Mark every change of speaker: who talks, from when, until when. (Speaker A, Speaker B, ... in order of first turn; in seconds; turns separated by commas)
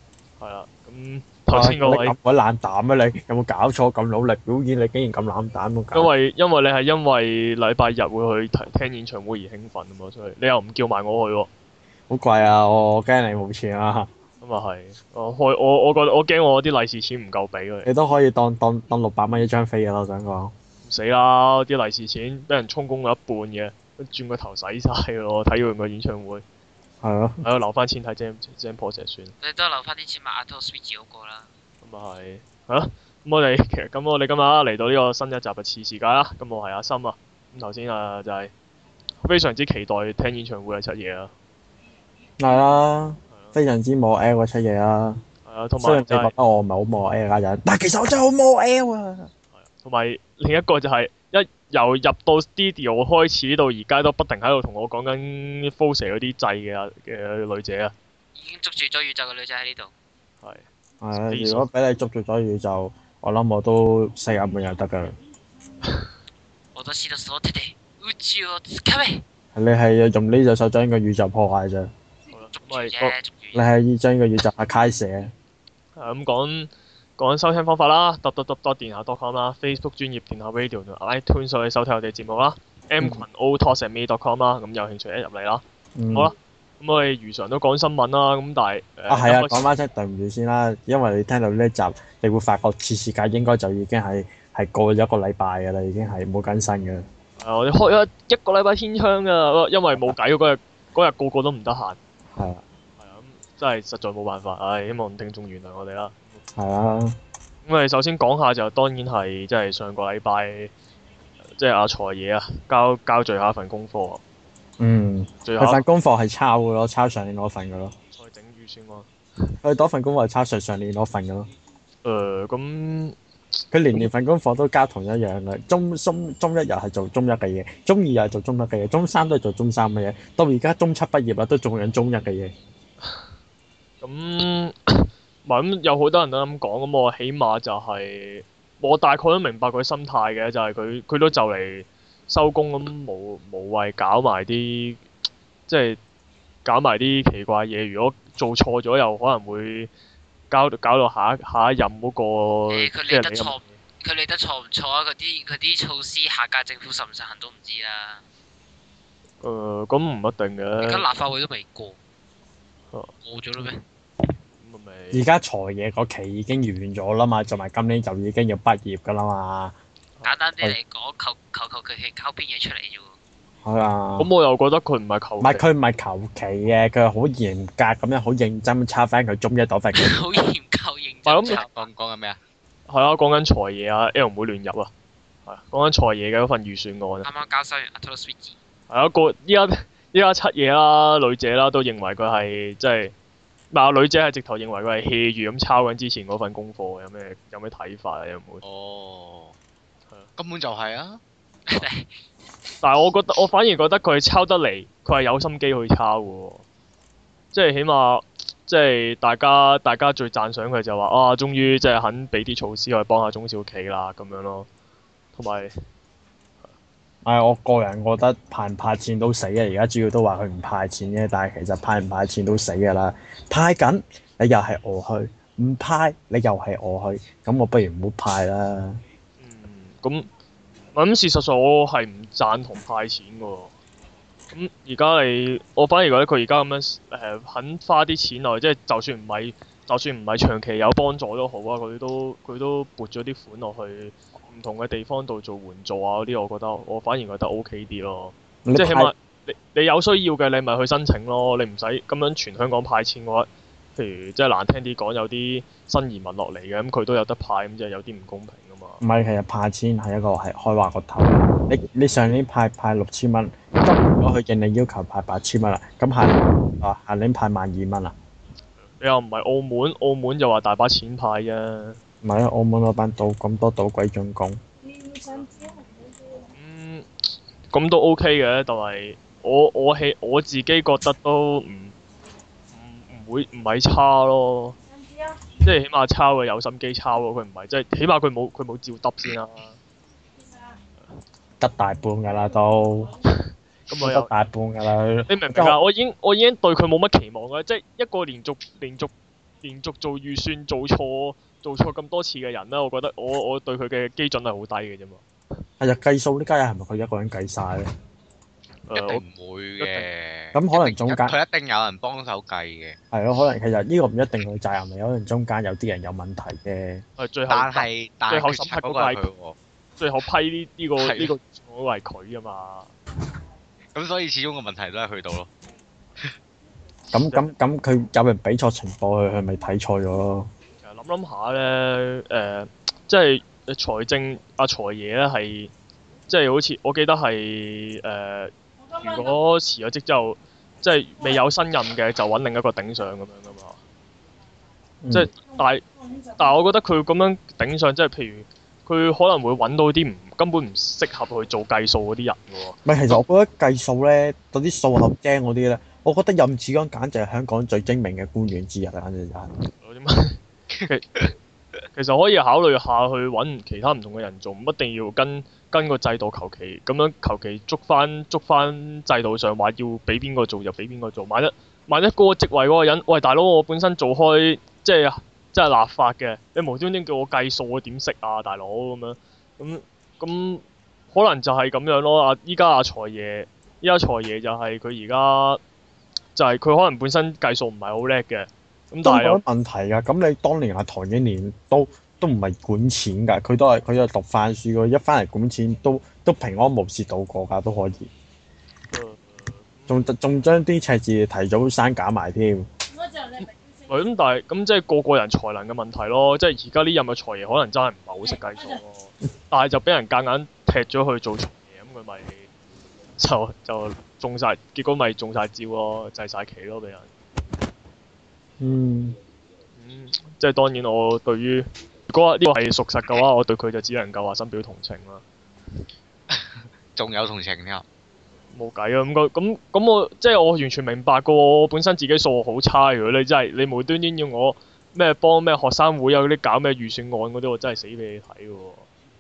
Speaker A: 0.4-2.1, Speaker B: 1.5-6.1, Speaker A: 5.9-11.5, Speaker B: 12.1-14.1, Speaker A: 14.4-17.9, Speaker B: 17.9-20.5, Speaker A: 20.8-26.4, Speaker B: 27.0-27.4, Speaker A: 27.4-29.3, Speaker C: 29.4-31.5, Speaker A: 31.8-38.5, Speaker A: 39.2-41.3, Speaker B: 42.4-45.2, Speaker A: 45.5-46.3, Speaker B: 45.8-49.3, Speaker A: 49.6-57.9, Speaker C: 58.4-59.9, Speaker A: 60.4-61.7, Speaker B: 61.0-65.2, Speaker C: 66.8-69.2, Speaker B: 69.5-71.9, Speaker A: 72.3-73.1, Speaker C: 72.6-73.6, Speaker B: 73.5-75.3, Speaker A: 76.0-89.7, Speaker B: 86.0-86.3, Speaker B: 89.1-97.0, Speaker A: 97.4-102.0, Speaker B: 102.4-102.6, Speaker A: 103.0-106.3, Speaker B: 106.5-107.2, Speaker A: 107.7-110.7, Speaker A: 111.6-114.2, Speaker B: 114.8-117.9, Speaker A: 115.5-115.8, Speaker A: 118.2-119.5, Speaker B: 119.6-121.5, Speaker A: 122.0-123.2, Speaker B: 123.7-132.5, Speaker A: 134.0-145.0, Speaker A: 145.7-146.0, Speaker A: 146.7-149.9, Speaker A: 150.5-153.7, Speaker C: 152.7-158.2, Speaker A: 159.4-161.1, Speaker C: 160.8-162.0, Speaker C: 163.2-163.8, Speaker A: 164.6-165.2, Speaker B: 165.1-169.8, Speaker C: 170.2-173.1, Speaker B: 173.7-174.3, Speaker A: 174.2-175.7, Speaker B: 175.4-180.2, Speaker C: 179.9-181.9, Speaker A: 181.3-181.6, Speaker D: 181.4-182.4, Speaker A: 182.9-184.9, Speaker A: 185.5-187.3, Speaker C: 187.2-188.6, Speaker A: 188.9-193.1, Speaker A: 193.7-198.6, Speaker D: 198.6-199.6, Speaker D: 200.4-201.2, Speaker C: 201.7-202.1, Speaker A: 202.8-206.7, Speaker A: 207.5-214.7, Speaker A: 215.3-215.7, Speaker B: 217.2-229.0, Speaker A: 229.4-230.3, Speaker A: 230.9-233.7, Speaker A: 234.5-259.0, Speaker B: 248.7-249.1, Speaker B: 259.0-268.1, Speaker A: 268.9-272.0, Speaker B: 272.2-274.6, Speaker A: 276.6-277.1, Speaker A: 277.7-282.0, Speaker A: 282.7-284.8, Speaker A: 285.6-289.8, Speaker B: 291.6-293.1, Speaker A: 293.9-294.3, Speaker B: 294.0-295.8, Speaker A: 295.3-305.2, Speaker B: 305.8-307.9, Speaker A: 308.9-309.2, Speaker D: 308.9-313.0, Speaker A: 309.8-310.1, Speaker B: 310.5-311.4, Speaker B: 313.1-317.0, Speaker A: 317.2-319.2, Speaker D: 317.5-319.6, Speaker A: 320.0-322.9, Speaker D: 321.0-321.3, Speaker D: 323.9-325.5, Speaker B: 327.1-330.5, Speaker A: 327.2-327.5, Speaker A: 330.8-335.7, Speaker A: 336.3-343.8, Speaker B: 345.0-345.3, Speaker A: 345.1-345.8, Speaker A: 346.4-352.8, Speaker B: 352.9-359.5, Speaker A: 359.8-361.2, Speaker A: 361.9-385.6, Speaker A: 386.4-389.4, Speaker B: 389.0-398.1, Speaker A: 398.9-400.0, Speaker B: 399.9-402.7, Speaker A: 403.4-412.5, Speaker A: 413.2-417.1, Speaker B: 418.6-419.2, Speaker A: 419.8-425.2, Speaker D: 426.3-427.9, Speaker A: 428.5-438.9